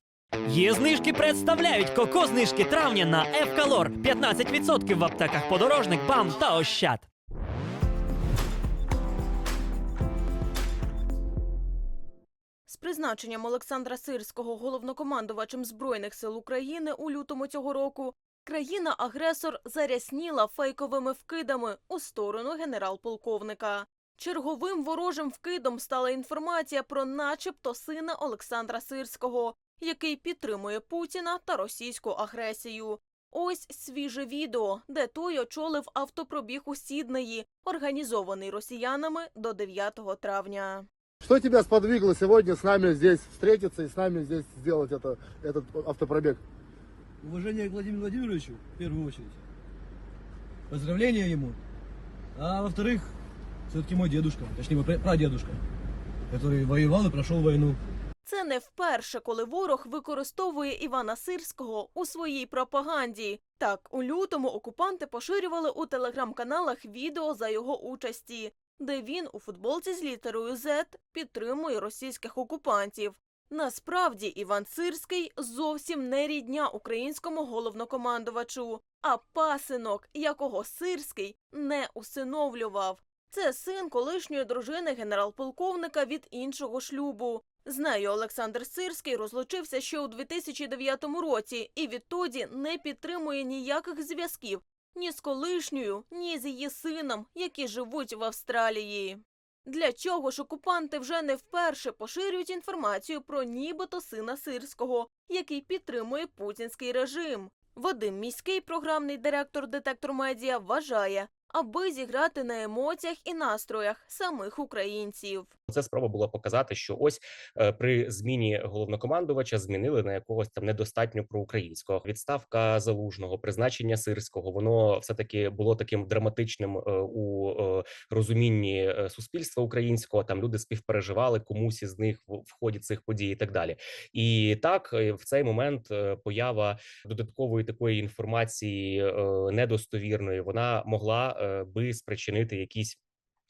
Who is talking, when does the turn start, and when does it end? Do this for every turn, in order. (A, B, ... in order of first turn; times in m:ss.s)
0:00.4-0:07.1 A
0:12.6-0:40.8 B
0:41.2-0:46.4 C
0:47.2-0:49.4 D
0:50.7-0:51.6 D
0:52.4-0:53.1 D
0:53.7-0:55.6 D
0:56.3-0:57.8 D
0:58.2-1:55.5 B
1:55.7-2:23.0 E